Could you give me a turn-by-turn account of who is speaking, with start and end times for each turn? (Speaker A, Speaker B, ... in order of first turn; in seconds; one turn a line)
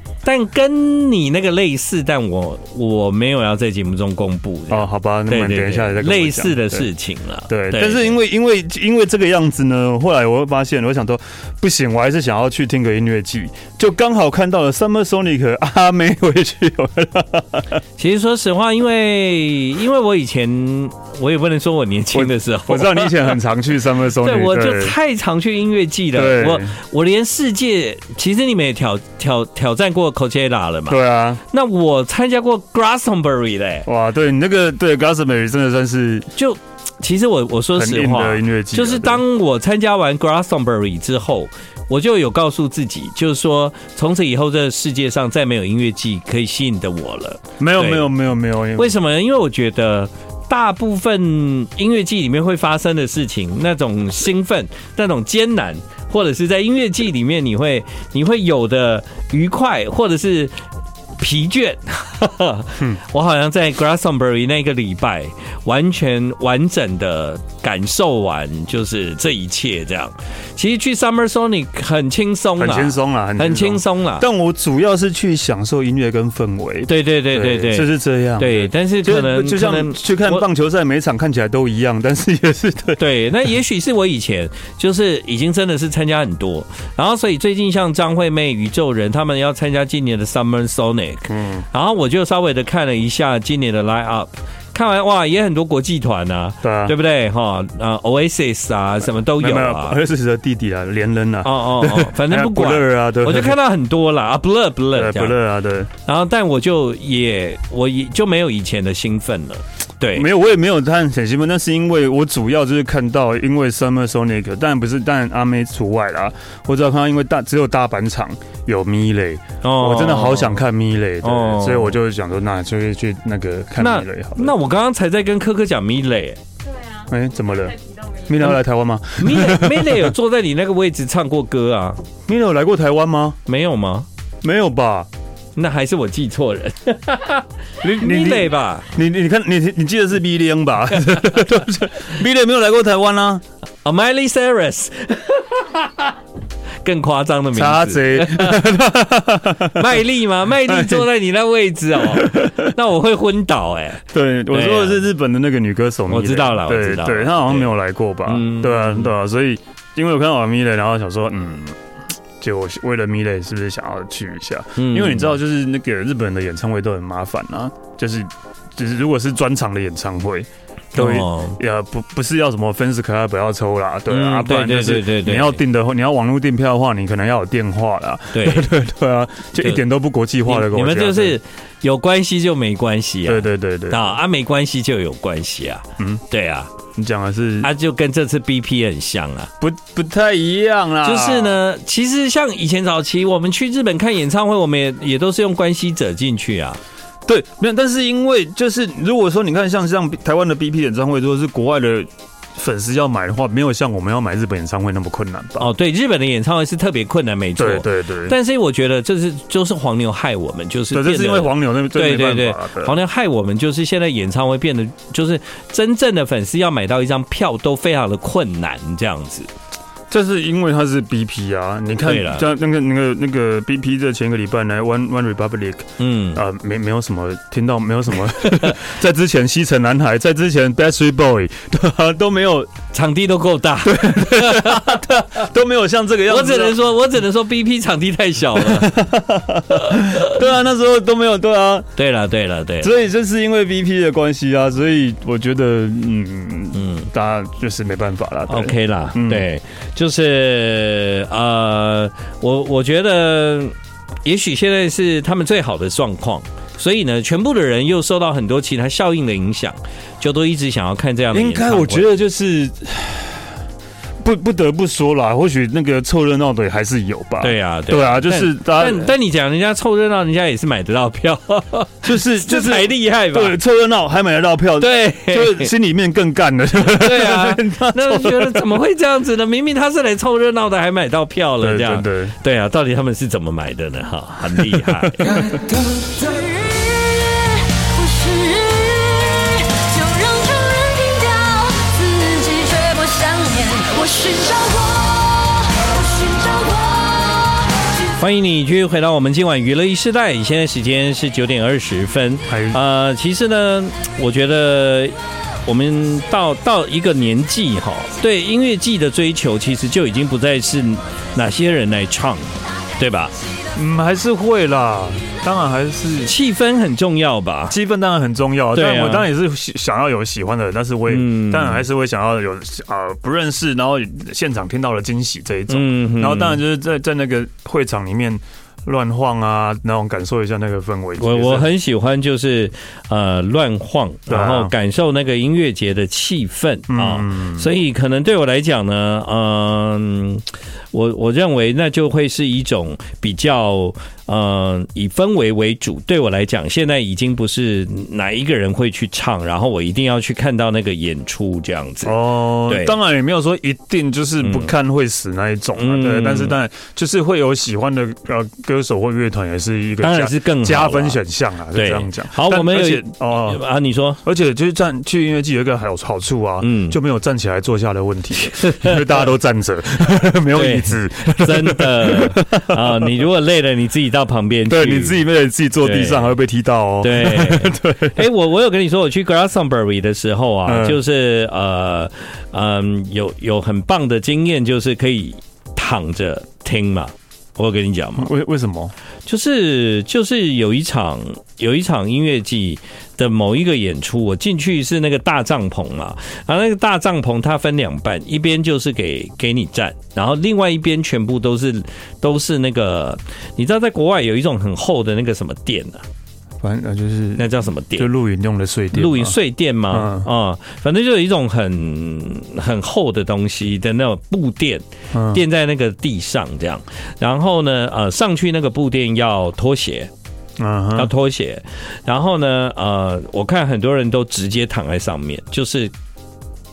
Speaker A: 0.2-8.2
Speaker B: 4.7-6.9
Speaker B: 7.5-17.8
Speaker A: 18.0-23.3
Speaker B: 22.1-24.9
Speaker A: 24.2-33.9
Speaker B: 26.1-26.8
Speaker B: 30.9-31.4
Speaker B: 33.9-36.3
Speaker A: 36.4-48.1
Speaker B: 37.8-39.2
Speaker B: 47.6-49.0
Speaker A: 48.8-60.6
Speaker A: 61.2-74.3
Speaker B: 72.6-83.0
Speaker A: 76.9-80.5
Speaker A: 83.0-100.0
Speaker B: 91.3-91.7
Speaker B: 96.6-97.0
Speaker B: 99.3-103.6
Speaker A: 101.4-105.4
Speaker B: 104.9-105.9
Speaker A: 106.1-110.3
Speaker B: 110.1-124.5
Speaker A: 119.6-120.6
Speaker A: 121.2-122.0
Speaker A: 123.8-126.4
Speaker C: 126.7-127.1
Speaker B: 127.1-130.1
Speaker C: 127.8-128.2
Speaker A: 129.2-132.0
Speaker B: 132.3-133.4
Speaker A: 133.5-134.1
Speaker B: 134.4-135.1
Speaker A: 135.6-138.9
Speaker B: 137.9-143.4
Speaker A: 143.8-146.2
Speaker A: 146.8-148.6
Speaker B: 147.5-150.0
Speaker A: 149.7-155.1
Speaker B: 150.7-151.1
Speaker B: 152.0-152.7
Speaker B: 154.1-161.8
Speaker A: 156.1-157.7
Speaker A: 158.3-159.1
Speaker B: 162.4-181.4
Speaker A: 164.8-165.3
Speaker A: 170.9-171.6
Speaker A: 174.1-175.6
Speaker A: 178.3-178.7
Speaker A: 180.4-186.7
Speaker B: 183.2-184.2
Speaker B: 186.9-187.7
Speaker A: 187.6-189.5
Speaker B: 189.6-191.6
Speaker A: 191.0-196.8
Speaker B: 197.3-205.7
Speaker A: 205.6-219.5
Speaker B: 207.6-208.3
Speaker B: 210.9-212.9
Speaker B: 220.1-232.7
Speaker A: 222.0-222.5
Speaker A: 226.0-226.4
Speaker A: 228.5-228.8
Speaker A: 232.9-235.1
Speaker B: 233.8-236.8
Speaker A: 236.3-239.0
Speaker B: 238.5-241.9
Speaker A: 239.7-240.4
Speaker A: 242.0-242.9
Speaker B: 242.8-249.5
Speaker A: 246.7-247.1
Speaker A: 248.5-262.1
Speaker B: 261.3-263.6
Speaker B: 264.2-269.1
Speaker A: 267.4-273.6
Speaker B: 272.0-278.6
Speaker A: 274.8-275.7
Speaker A: 276.9-285.2
Speaker B: 281.6-282.3
Speaker B: 284.5-285.6
Speaker C: 285.2-298.2
Speaker A: 298.2-313.3
Speaker B: 302.5-302.8
Speaker B: 313.8-316.4
Speaker A: 316.2-317.8
Speaker B: 317.7-331.7
Speaker A: 318.7-319.3
Speaker A: 321.1-321.9
Speaker A: 325.7-326.6
Speaker A: 331.2-353.0
Speaker B: 334.3-334.7
Speaker B: 336.9-337.7
Speaker B: 352.0-363.6
Speaker A: 354.4-354.7
Speaker A: 355.8-356.6
Speaker A: 360.0-361.2
Speaker A: 361.7-364.2
Speaker B: 364.2-373.1
Speaker A: 366.6-367.0
Speaker A: 368.6-369.0
Speaker A: 370.5-375.2
Speaker B: 374.7-378.2
Speaker A: 375.8-376.3
Speaker A: 377.0-388.3
Speaker B: 380.6-381.0
Speaker B: 388.2-388.9
Speaker A: 389.3-406.0
Speaker B: 406.6-409.4
Speaker A: 407.4-408.1
Speaker A: 408.9-420.1
Speaker B: 409.9-410.3
Speaker B: 415.1-415.4
Speaker B: 420.6-421.1
Speaker A: 421.0-425.9